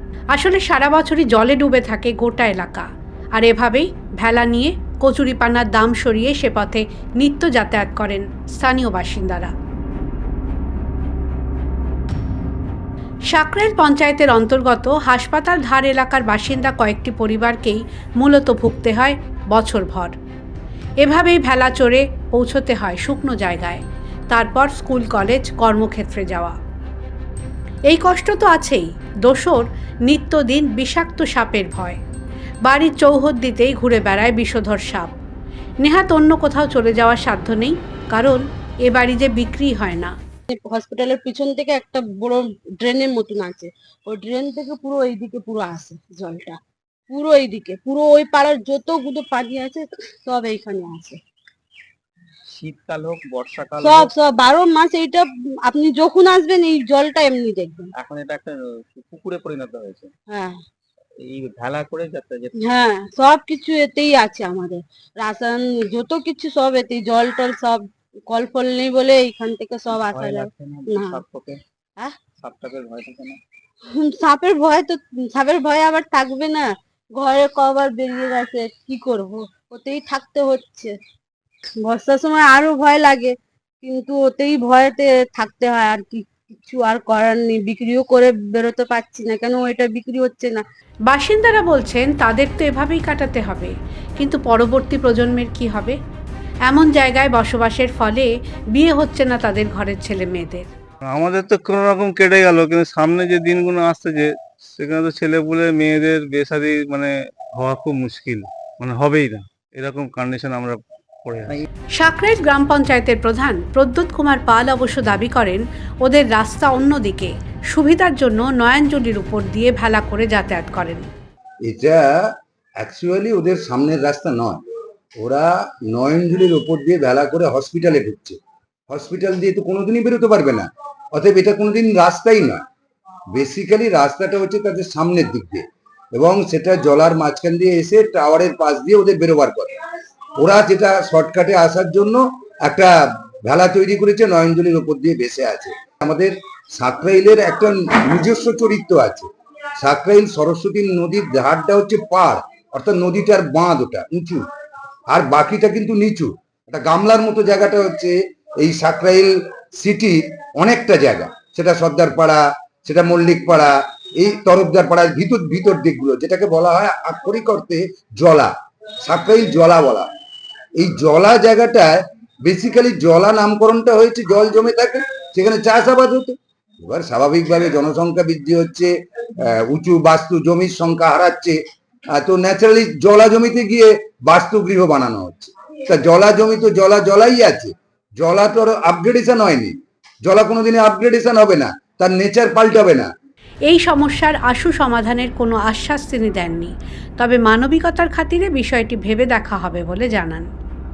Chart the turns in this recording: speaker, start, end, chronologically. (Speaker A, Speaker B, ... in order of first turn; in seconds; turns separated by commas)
Speaker A: 0.3-9.5, Speaker A: 13.3-20.2, Speaker A: 21.0-26.6, Speaker A: 27.9-32.0, Speaker A: 32.6-35.1, Speaker A: 35.8-40.1, Speaker B: 40.5-46.6, Speaker B: 47.1-51.2, Speaker C: 52.6-54.1, Speaker B: 53.8-57.9, Speaker C: 58.0-60.1, Speaker B: 60.3-60.6, Speaker C: 61.3-62.5, Speaker B: 62.6-71.2, Speaker C: 70.0-71.6, Speaker C: 72.4-73.4, Speaker B: 73.9-80.9, Speaker B: 81.8-90.6, Speaker A: 91.1-96.0, Speaker A: 96.7-100.7, Speaker D: 101.1-111.6, Speaker A: 112.0-121.0, Speaker E: 121.7-122.2, Speaker E: 122.8-124.6, Speaker E: 125.2-128.4, Speaker E: 128.9-132.6, Speaker E: 133.3-139.7, Speaker E: 140.4-142.9, Speaker E: 143.4-154.4, Speaker E: 155.1-168.5, Speaker E: 169.0-170.1, Speaker E: 170.8-178.9, Speaker E: 179.4-181.6, Speaker E: 182.2-189.7, Speaker E: 190.2-193.1, Speaker A: 193.7-200.5